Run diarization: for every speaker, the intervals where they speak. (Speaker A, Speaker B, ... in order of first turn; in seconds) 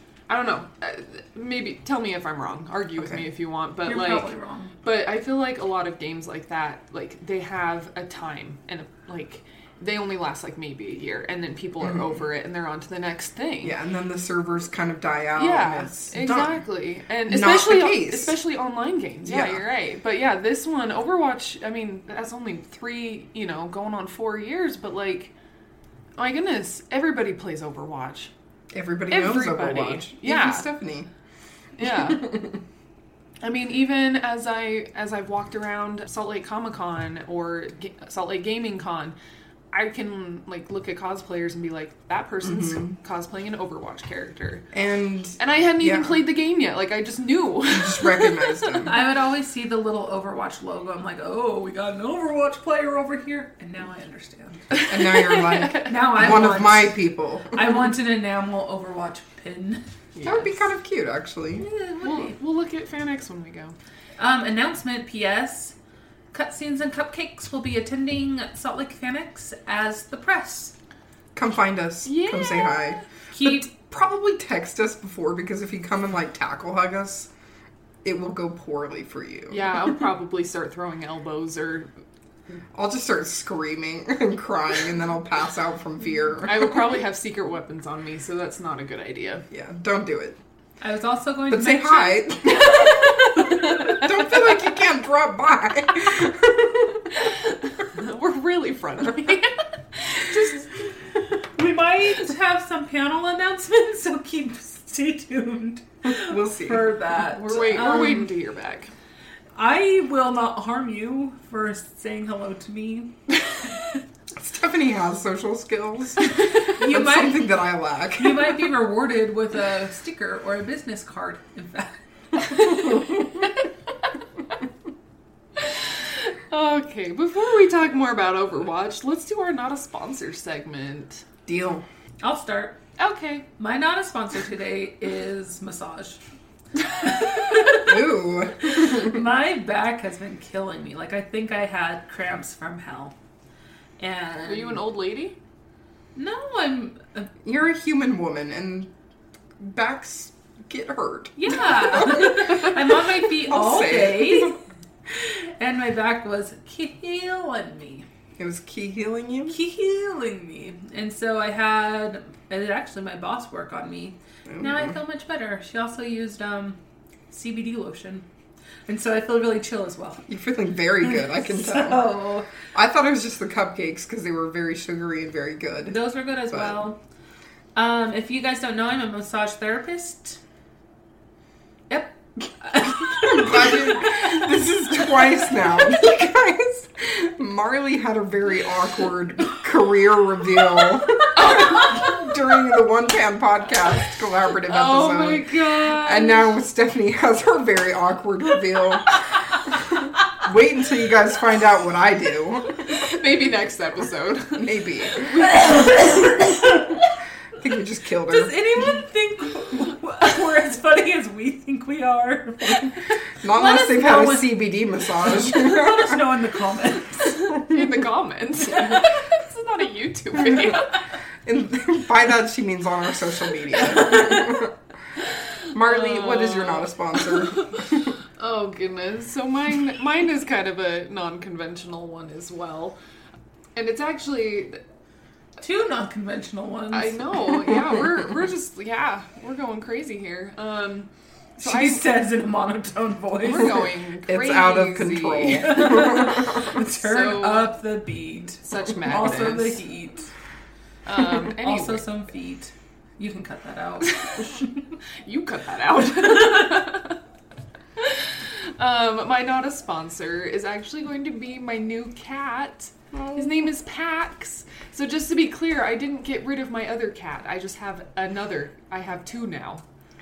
Speaker A: 0.3-4.3, 4.8-13.7, 15.3-25.3, 26.1-28.3, 29.1-30.7, 31.8-32.3, 33.4-39.1, 39.7-44.6, 45.4-48.8, 60.2-60.4, 62.0-63.8, 72.0-73.0, 79.5-81.9, 86.4-89.4, 97.2-100.7, 107.4-108.9, 125.6-131.2, 133.0-133.5, 144.4-145.4, 191.3-192.1, 194.7-196.4, 202.9-206.2, 217.3-221.0, 225.8-233.0, 233.7-234.8, 236.9-242.0, 243.4-247.8, 248.6-249.8, 251.1-252.0, 254.0-254.4, 255.2-257.2, 258.0-269.8
Speaker B: 3.8-4.7, 48.8-54.6, 55.8-57.0, 57.5-59.8, 61.5-62.3, 64.2-65.7, 66.3-70.7, 73.3-73.7, 90.8-93.6, 101.5-108.3, 109.5-113.1, 116.7-117.5, 118.2-122.8, 132.2-132.8, 133.6-136.2, 136.9-138.1, 138.6-143.1, 144.0-144.8, 146.2-147.3, 151.4-158.1, 159.5-166.8, 167.3-168.2, 168.9-170.3, 171.0-172.5, 175.9-177.0, 177.7-180.4, 181.9-184.5, 205.2-207.0, 208.3-217.4, 235.6-237.2, 241.6-243.9, 245.6-250.3, 251.2-254.7
Speaker C: 13.6-16.6, 17.2-18.4, 19.2-19.6, 28.7-31.1, 32.1-32.6, 42.6-42.9, 44.7-46.2, 47.7-49.0, 54.9-57.6, 60.2-61.6, 71.3-77.3, 78.0-79.6, 82.7-86.8, 89.5-90.4, 91.5-97.1, 106.0-106.9, 114.3-118.6, 131.4-131.8, 137.5-139.1, 147.4-148.9, 149.6-152.8, 153.4-154.6, 158.4-159.6, 164.5-164.9, 170.3-172.1, 172.7-176.0, 176.5-176.8, 182.9-199.8, 200.3-203.2, 204.5-205.3, 207.6-208.6, 213.4-216.2, 221.4-224.7, 225.7-228.1, 244.2-246.4, 263.1-263.5